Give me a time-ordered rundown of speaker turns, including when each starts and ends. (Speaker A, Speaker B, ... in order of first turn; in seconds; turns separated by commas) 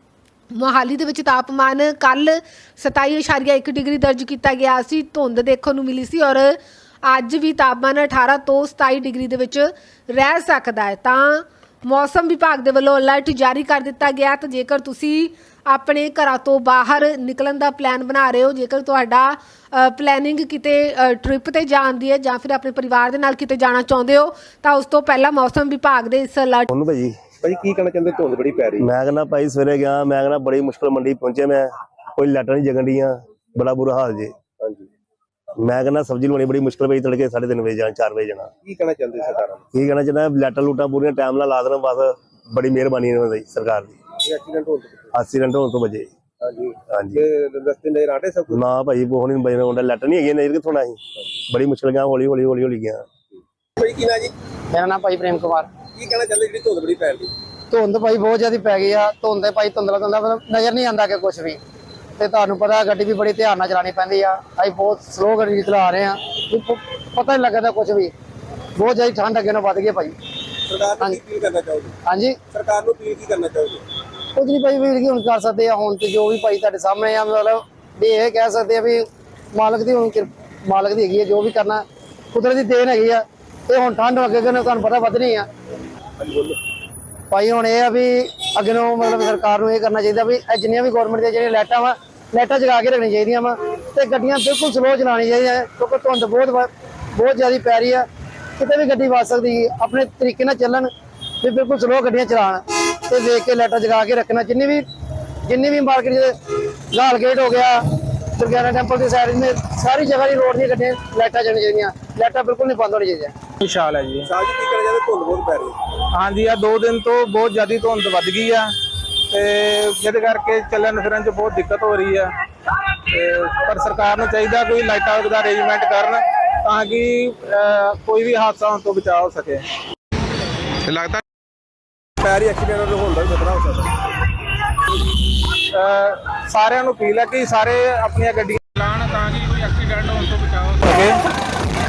Speaker A: 0.5-26.7, Speaker B: 26.7-27.1, Speaker C: 27.4-28.9, Speaker B: 28.8-34.3, Speaker C: 34.6-34.8, Speaker B: 35.6-38.5, Speaker C: 38.6-39.6, Speaker B: 39.7-44.0, Speaker C: 44.2-45.1, Speaker B: 45.1-46.1, Speaker C: 46.4-48.6, Speaker B: 46.9-47.2, Speaker B: 48.5-51.0, Speaker B: 51.5-53.0, Speaker C: 53.8-54.3, Speaker D: 54.7-55.7, Speaker C: 55.9-57.3, Speaker D: 57.7-61.6, Speaker D: 62.2-68.1, Speaker D: 68.8-70.1, Speaker C: 70.7-72.0, Speaker D: 72.0-72.4, Speaker C: 72.5-73.8, Speaker D: 74.3-85.5, Speaker D: 87.3-98.1, Speaker D: 98.6-104.8, Speaker D: 105.4-106.3, Speaker D: 106.9-113.3, Speaker E: 113.6-114.3, Speaker C: 114.2-115.8, Speaker E: 116.1-118.7, Speaker E: 119.3-122.3, Speaker E: 123.1-129.6, Speaker C: 132.2-133.9, Speaker E: 135.6-141.2